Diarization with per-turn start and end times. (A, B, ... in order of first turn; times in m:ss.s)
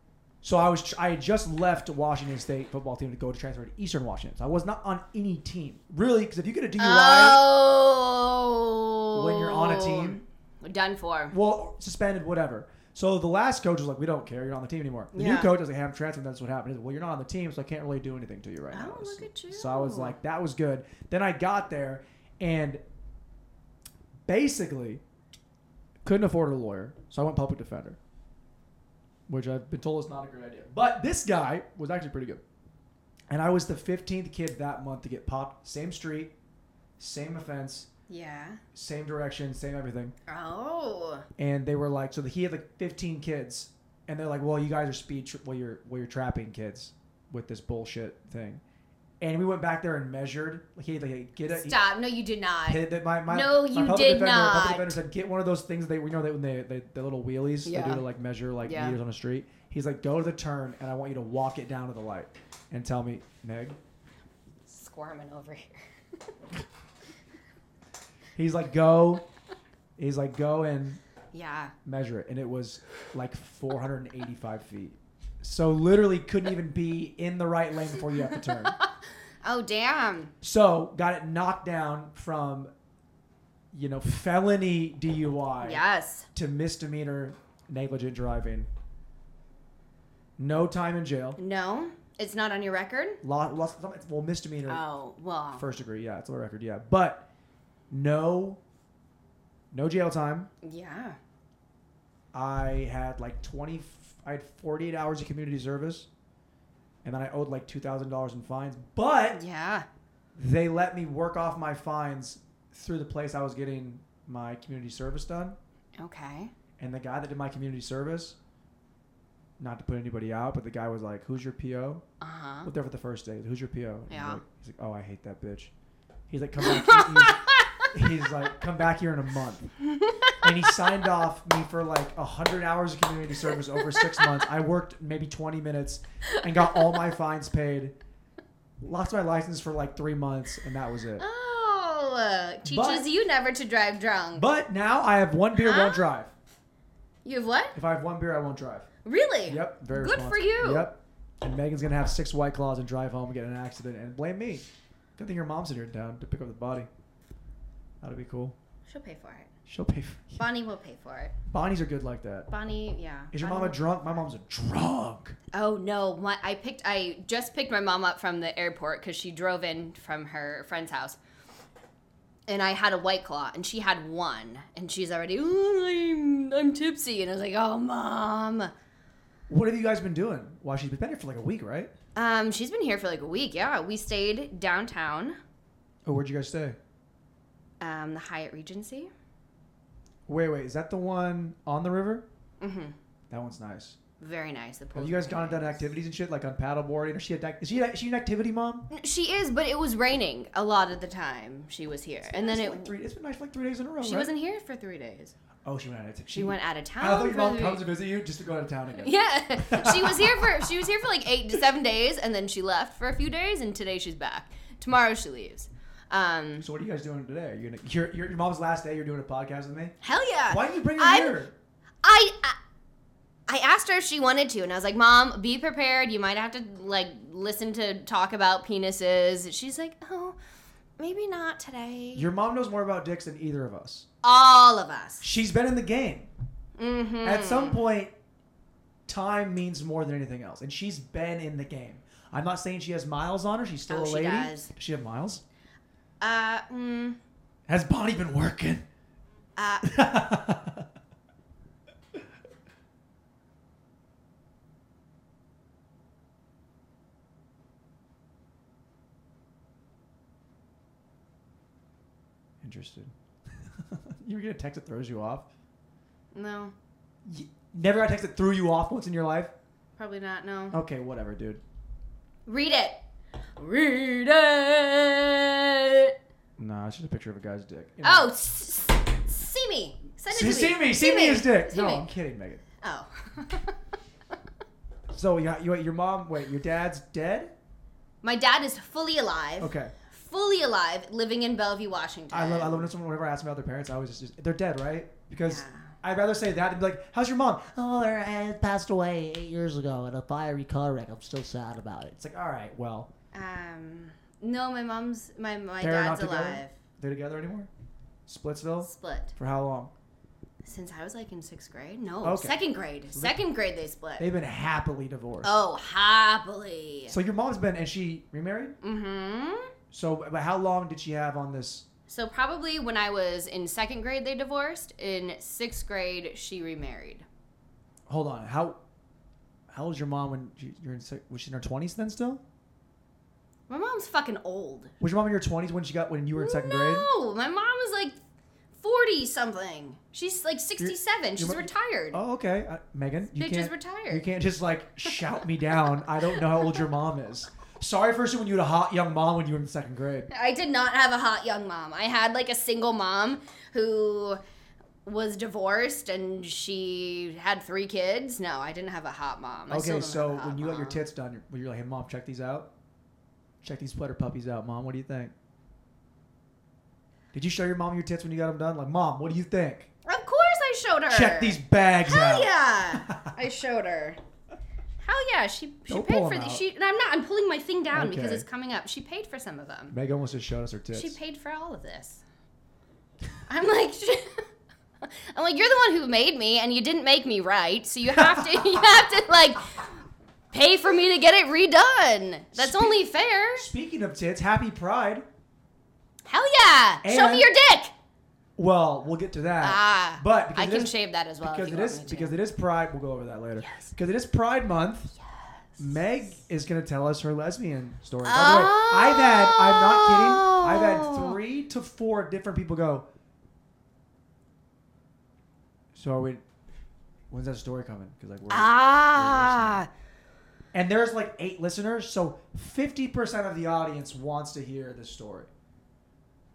0:00.4-0:07.4 A
0:06.8-0:11.4 B
0:09.1-0:10.2 A
0:11.3-0:22.8 A
0:15.1-0:15.5 B
0:18.7-0:20.2 B
0:24.3-0:25.0 A
0:26.0-0:28.0 A
0:29.3-0:32.4 A
0:33.3-0:36.3 A
0:37.0-0:37.9 A
0:38.1-0:38.6 B
0:38.7-0:40.1 A
0:40.3-0:41.2 B
0:41.4-0:48.6 A
0:49.2-0:51.8 A
0:51.5-0:55.0 B
0:52.7-1:03.8 A
0:57.6-0:58.0 B
0:58.6-0:59.0 B
1:04.7-1:05.8 B
1:08.4-1:09.2 A
1:10.0-1:11.0 A
1:11.3-1:11.7 B
1:11.8-1:18.8 A
1:18.2-1:18.4 B
1:19.4-1:20.3 B
1:20.4-1:22.7 A
1:23.7-1:25.8 A
1:25.6-1:26.3 B
1:26.3-1:28.7 A
1:30.4-1:31.4 A
1:31.4-1:33.2 B
1:33.2-1:34.8 A
1:34.7-1:35.6 B
1:35.6-1:37.2 A
1:37.9-1:38.6 A
1:39.7-1:40.5 A
1:40.6-1:41.2 B
1:42.3-1:46.1 A
1:47.0-1:49.4 A
1:49.3-1:49.9 B
1:50.4-1:55.6 A
1:56.0-1:56.5 B
1:56.8-1:58.4 A
1:59.6-2:02.0 A
2:02.2-2:02.7 B
2:02.6-2:05.7 A
2:04.1-2:04.4 B
2:06.3-2:09.7 A
2:06.6-2:07.4 B
2:09.9-2:10.4 B
2:10.4-2:17.9 A
2:16.3-2:16.8 B
2:18.8-2:21.2 A
2:21.2-2:24.5 B
2:22.6-2:23.1 A
2:24.4-2:26.3 A
2:25.6-2:26.1 B
2:27.2-2:27.8 B
2:27.7-2:28.9 A
2:29.0-2:30.9 B
2:29.5-2:34.6 A
2:35.2-2:36.9 A
2:38.0-2:38.5 A
2:38.9-2:39.5 B
2:39.6-2:40.5 A
2:40.4-2:41.3 B
2:41.5-2:42.5 A
2:42.5-2:43.8 B
2:43.3-2:45.4 A
2:45.5-2:51.2 B
2:52.5-2:58.7 B
2:59.5-3:01.9 A
3:02.1-3:05.4 B
3:06.0-3:06.8 A
3:07.8-3:09.1 B
3:10.3-3:12.2 A
3:12.6-3:13.0 B
3:13.3-3:14.0 A
3:14.2-3:15.8 B
3:15.0-3:18.9 A
3:18.9-3:22.9 B
3:22.2-3:24.3 A
3:24.0-3:25.3 B
3:25.6-3:29.1 A
3:26.3-3:27.8 B
3:29.0-3:36.7 B
3:29.6-3:30.6 A
3:36.6-3:40.0 A
3:40.0-3:41.4 B
3:40.5-3:41.5 A
3:42.0-3:42.6 B
3:43.5-3:50.4 B
3:51.0-3:52.3 B
3:52.1-3:54.1 A
3:54.2-3:55.2 B
3:55.2-3:56.3 A
3:56.8-3:57.8 B
3:57.2-3:58.1 A
3:59.1-4:05.4 A
4:03.9-4:04.7 B
4:06.2-4:07.2 B
4:07.7-4:08.8 A
4:09.6-4:10.0 B
4:09.8-4:10.9 A
4:22.6-4:25.5 A
4:26.3-4:26.7 B
4:27.2-4:29.5 A
4:30.0-4:30.8 B
4:30.7-4:31.6 A
4:32.5-4:33.0 B
4:33.6-4:36.1 B
4:36.6-4:38.3 A
4:38.0-4:42.1 B
4:40.3-4:42.6 A
4:42.8-4:43.8 B
4:45.1-4:47.5 A
4:48.2-4:52.9 B
4:49.6-4:49.9 A
4:52.3-4:58.4 A
4:55.4-4:56.0 B
4:58.0-5:02.1 C
5:02.1-5:03.1 A
5:03.3-5:06.7 B
5:05.8-5:07.7 A
5:08.3-5:09.9 A
5:08.8-5:09.3 B
5:10.6-5:14.3 B
5:12.2-5:12.6 A
5:13.1-5:13.4 A
5:14.2-5:15.5 A
5:15.4-5:17.2 B
5:17.1-5:18.7 A
5:18.8-5:19.7 B
5:19.9-5:21.9 A
5:22.1-5:27.2 B
5:28.1-5:28.8 A
5:29.7-5:32.4 A
5:33.7-5:34.9 B
5:35.0-5:37.1 A
5:36.4-5:38.2 B
5:38.8-5:42.2 B
5:40.8-5:50.3 A
5:43.4-5:44.3 B
5:45.9-5:46.8 B
5:50.3-5:54.4 B
5:55.0-6:01.0 B
5:59.7-6:02.7 A
6:03.6-6:05.3 A
6:07.3-6:09.9 A
6:10.0-6:14.2 B
6:11.1-6:13.3 A
6:15.0-6:20.0 B
6:15.9-6:16.6 A
6:17.9-6:18.4 A
6:19.9-6:21.2 A
6:20.9-6:22.2 B
6:23.5-6:24.4 B
6:25.0-6:29.9 B
6:28.1-6:28.8 A
6:30.5-6:33.7 B
6:32.5-6:35.2 A
6:36.3-6:37.9 B
6:37.0-6:37.5 A
6:38.6-6:45.1 A
6:39.6-6:42.4 B
6:43.6-6:43.9 B
6:45.3-6:45.9 B
6:45.8-6:53.0 A
6:48.2-6:51.4 B
6:55.9-6:56.4 A
6:57.3-6:59.8 A
6:58.5-6:59.9 B
7:00.7-7:05.5 A